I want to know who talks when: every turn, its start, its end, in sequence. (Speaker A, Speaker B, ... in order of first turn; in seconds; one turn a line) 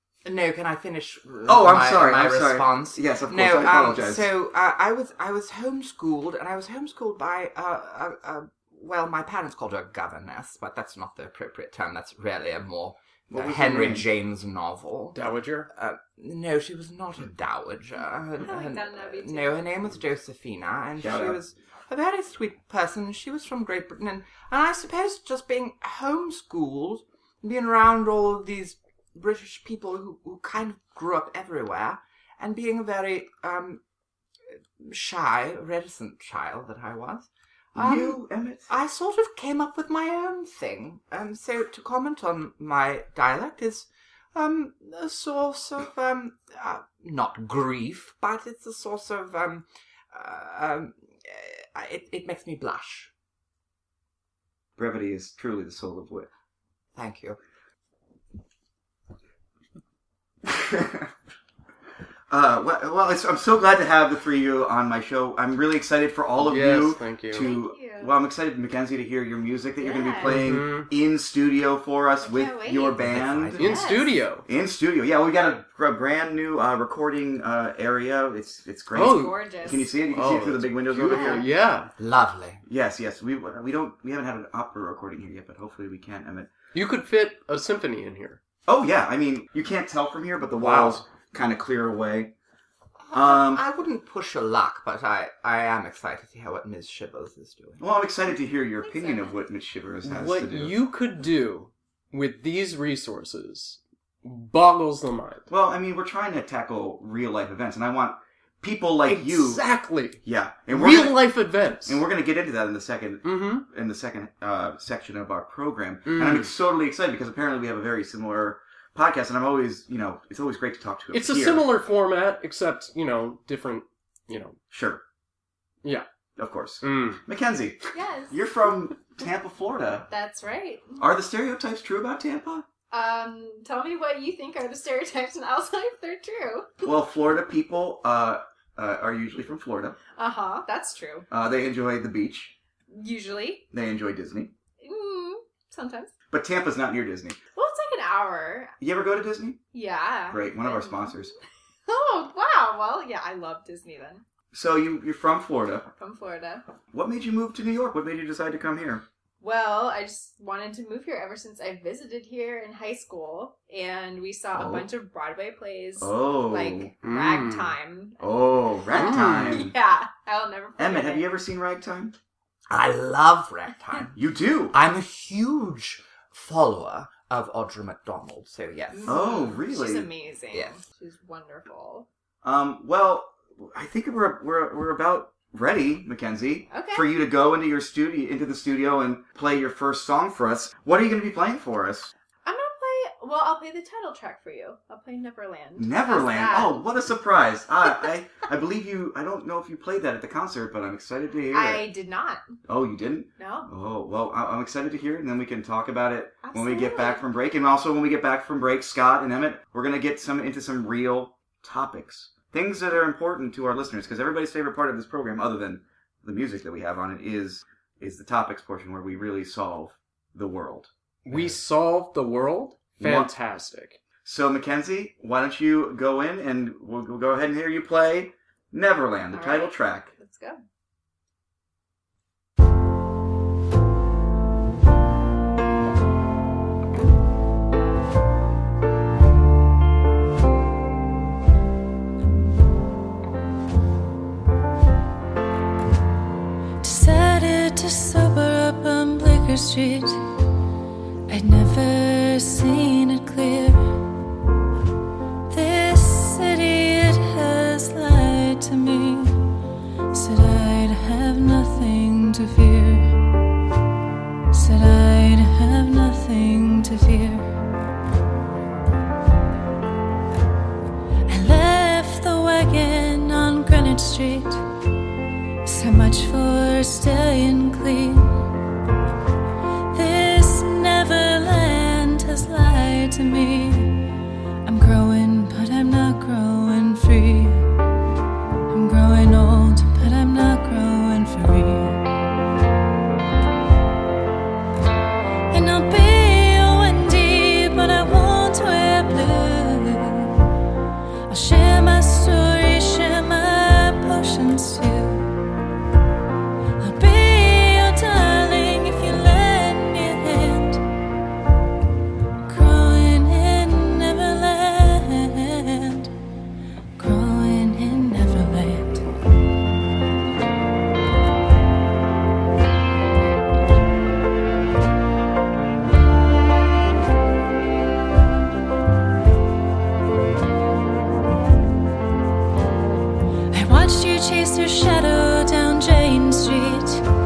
Speaker A: 0.2-33.8
Speaker B: 1.5-4.3
Speaker B: 13.3-14.1
Speaker C: 15.2-15.7
Speaker D: 18.4-19.7
Speaker B: 21.0-21.4
Speaker A: 34.8-53.1
Speaker B: 37.8-38.7
Speaker B: 54.8-56.3
Speaker A: 57.0-57.4
Speaker B: 60.4-61.1
Speaker B: 62.3-73.7
Speaker C: 66.4-67.5
Speaker D: 67.3-68.1
Speaker D: 69.8-70.5
Speaker C: 70.2-70.9
Speaker D: 72.2-74.2
Speaker A: 73.0-73.8
Speaker C: 73.5-74.5
Speaker B: 74.5-81.5
Speaker C: 79.0-79.5
Speaker D: 79.0-79.9
Speaker C: 80.1-81.9
Speaker D: 81.1-81.4
Speaker A: 82.0-82.6
Speaker B: 82.7-86.5
Speaker C: 86.7-88.4
Speaker B: 88.7-92.3
Speaker C: 90.6-91.0
Speaker A: 93.1-97.8
Speaker B: 93.1-93.6
Speaker B: 97.8-100.8
Speaker D: 98.8-99.4
Speaker C: 100.0-105.5
Speaker B: 105.5-109.7
Speaker C: 109.1-112.0
Speaker B: 110.2-111.2
Speaker B: 111.8-121.7
Speaker C: 113.2-113.7
Speaker C: 116.1-116.5
Speaker C: 121.1-124.6
Speaker B: 124.7-125.0
Speaker B: 126.4-130.1
Speaker C: 126.8-127.2
Speaker D: 127.9-128.4
Speaker D: 130.1-131.0
Speaker B: 131.0-132.7
Speaker D: 132.9-136.9
Speaker B: 136.8-140.0
Speaker D: 140.2-141.3
Speaker B: 141.3-142.5
Speaker D: 142.9-143.7
Speaker B: 143.7-144.5
Speaker D: 144.8-146.1
Speaker B: 146.3-147.4
Speaker D: 147.6-148.7
Speaker B: 148.8-149.6
Speaker D: 149.7-151.3
Speaker B: 150.3-151.3
Speaker D: 151.9-154.2
Speaker B: 154.5-155.9
Speaker D: 156.0-156.6
Speaker B: 156.9-159.1
Speaker D: 159.4-171.3
Speaker B: 164.5-164.9
Speaker B: 166.0-166.9
Speaker C: 167.0-167.7
Speaker B: 168.2-169.7
Speaker C: 168.9-169.7
Speaker B: 170.8-172.2
Speaker A: 172.7-174.2
Speaker B: 174.1-174.8
Speaker A: 174.7-179.2
Speaker D: 178.9-182.1
Speaker B: 179.1-180.1
Speaker A: 180.5-180.8
Speaker B: 182.4-192.1
Speaker D: 186.7-187.1
Speaker D: 192.4-196.9
Speaker B: 195.8-201.9
Speaker D: 201.5-202.5
Speaker B: 202.7-221.6
Speaker D: 203.4-203.7
Speaker D: 206.4-207.3
Speaker C: 221.3-224.0
Speaker B: 223.0-223.3
Speaker B: 224.2-230.1
Speaker D: 229.3-230.6
Speaker E: 246.8-250.2
Speaker E: 251.3-254.0
Speaker E: 255.5-259.4
Speaker E: 260.1-263.2
Speaker E: 264.5-267.6
Speaker E: 271.3-274.6
Speaker E: 275.6-278.5
Speaker E: 279.9-284.1
Speaker E: 284.6-287.7
Speaker E: 288.7-292.0
Speaker E: 295.5-300.4
Speaker E: 301.3-305.3
Speaker E: 306.8-310.8
Speaker E: 312.5-316.1
Speaker E: 317.0-319.0
Speaker E: 333.5-337.0